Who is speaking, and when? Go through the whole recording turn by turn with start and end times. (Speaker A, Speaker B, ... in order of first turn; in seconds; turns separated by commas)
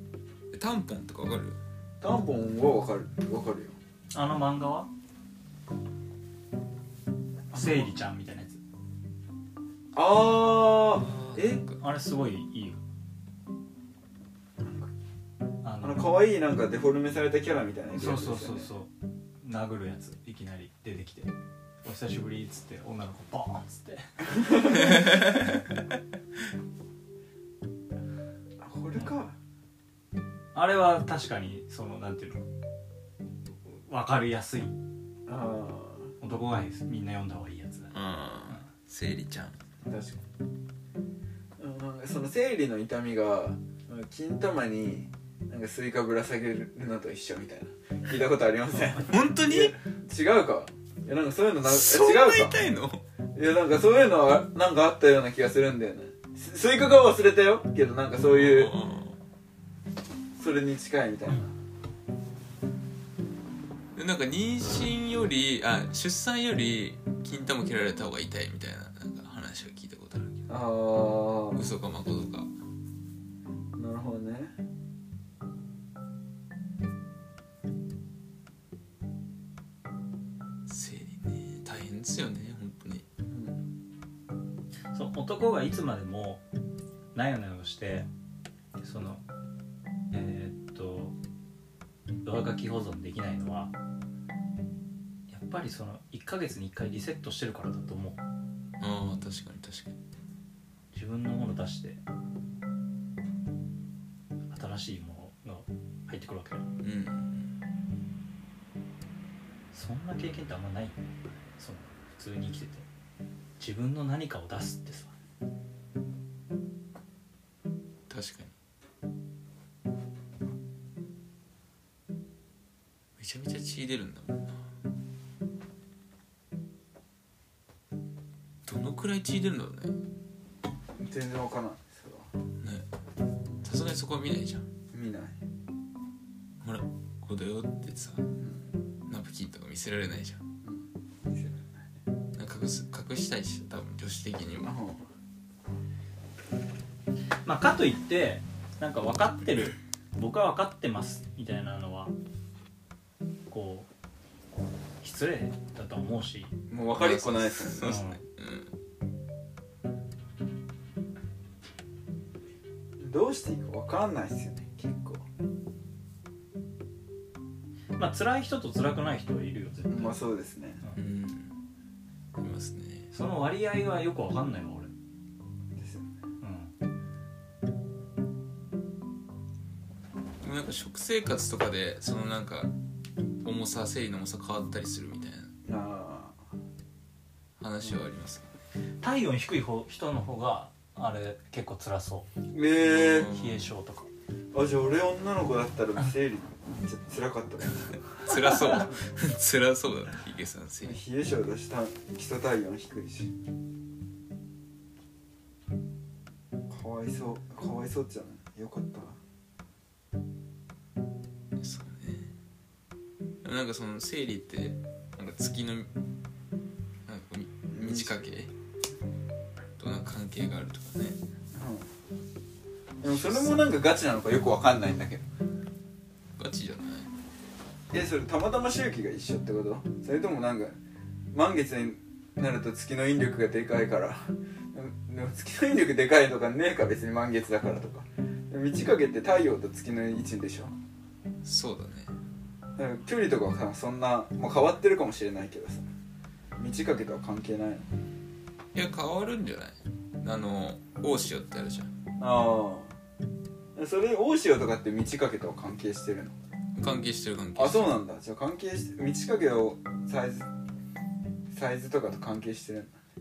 Speaker A: 0.5-1.6, Speaker B: 2.0-3.8, Speaker C: 4.1-4.9, Speaker B: 7.5-7.9, Speaker C: 7.5-8.6, Speaker B: 9.9-11.6, Speaker A: 10.8-11.8, Speaker C: 11.8-12.8, Speaker B: 14.6-14.9, Speaker C: 15.6-16.1, Speaker B: 15.8-18.7, Speaker C: 17.9-24.2, Speaker B: 24.4-25.0, Speaker A: 24.9-25.4, Speaker B: 28.6-29.4, Speaker C: 30.5-32.4, Speaker C: 33.6-34.8, Speaker B: 35.3-36.1, Speaker C: 36.2-37.9, Speaker A: 37.9-39.6, Speaker B: 39.9-40.2, Speaker B: 41.6-52.6, Speaker A: 49.0-49.8, Speaker A: 51.6-53.0, Speaker B: 53.4-58.8, Speaker A: 58.2-59.2, Speaker B: 60.4-61.5, Speaker A: 63.9-70.5, Speaker B: 70.5-71.7, Speaker A: 71.5-72.5, Speaker B: 73.7-74.6, Speaker A: 80.7-83.0, Speaker B: 83.3-83.6, Speaker C: 84.9-86.4, Speaker C: 87.1-88.1, Speaker C: 88.8-89.2, Speaker C: 90.1-91.2, Speaker C: 92.2-93.7, Speaker C: 95.3-98.2, Speaker A: 98.8-100.0, Speaker C: 100.9-102.0, Speaker C: 104.5-106.7, Speaker A: 106.8-107.5, Speaker C: 109.7-111.0, Speaker C: 111.6-112.9, Speaker C: 113.6-115.1, Speaker A: 118.1-118.5, Speaker A: 123.2-124.6, Speaker A: 128.7-130.0, Speaker B: 131.0-132.3, Speaker A: 133.6-134.7, Speaker B: 134.9-135.4, Speaker A: 136.6-138.3, Speaker B: 138.4-138.7, Speaker A: 139.1-140.4, Speaker B: 140.6-141.8, Speaker A: 142.4-144.7, Speaker B: 144.6-145.0, Speaker C: 147.4-152.1, Speaker C: 153.5-153.9, Speaker C: 155.0-157.1, Speaker B: 156.7-158.0, Speaker A: 156.8-158.7, Speaker C: 157.7-158.2, Speaker B: 163.0-165.2, Speaker C: 168.0-170.2, Speaker B: 169.9-170.8, Speaker A: 170.9-171.5, Speaker A: 172.4-173.1, Speaker C: 173.1-174.9, Speaker B: 175.8-176.1, Speaker C: 176.4-176.7, Speaker A: 180.4-182.7, Speaker A: 183.4-185.5, Speaker B: 185.7-186.4, Speaker A: 187.6-188.5, Speaker C: 189.0-192.3, Speaker B: 192.5-193.3, Speaker A: 192.8-193.6, Speaker C: 193.3-194.1, Speaker B: 194.5-198.0, Speaker A: 198.2-201.0, Speaker C: 198.4-198.6, Speaker B: 200.8-203.3, Speaker B: 206.7-209.2, Speaker A: 211.6-212.3, Speaker A: 213.4-215.9, Speaker A: 217.1-218.5, Speaker B: 217.7-218.2, Speaker A: 219.8-221.2, Speaker B: 221.5-221.9, Speaker B: 223.0-225.3, Speaker A: 223.1-223.7, Speaker A: 226.4-227.1, Speaker B: 227.9-230.8, Speaker B: 231.3-240.7, Speaker A: 241.4-242.1, Speaker B: 242.8-245.9, Speaker B: 246.6-247.9, Speaker A: 248.7-251.9, Speaker B: 252.2-252.9, Speaker B: 253.8-256.4, Speaker A: 256.8-257.9, Speaker B: 257.6-260.5, Speaker B: 261.5-263.0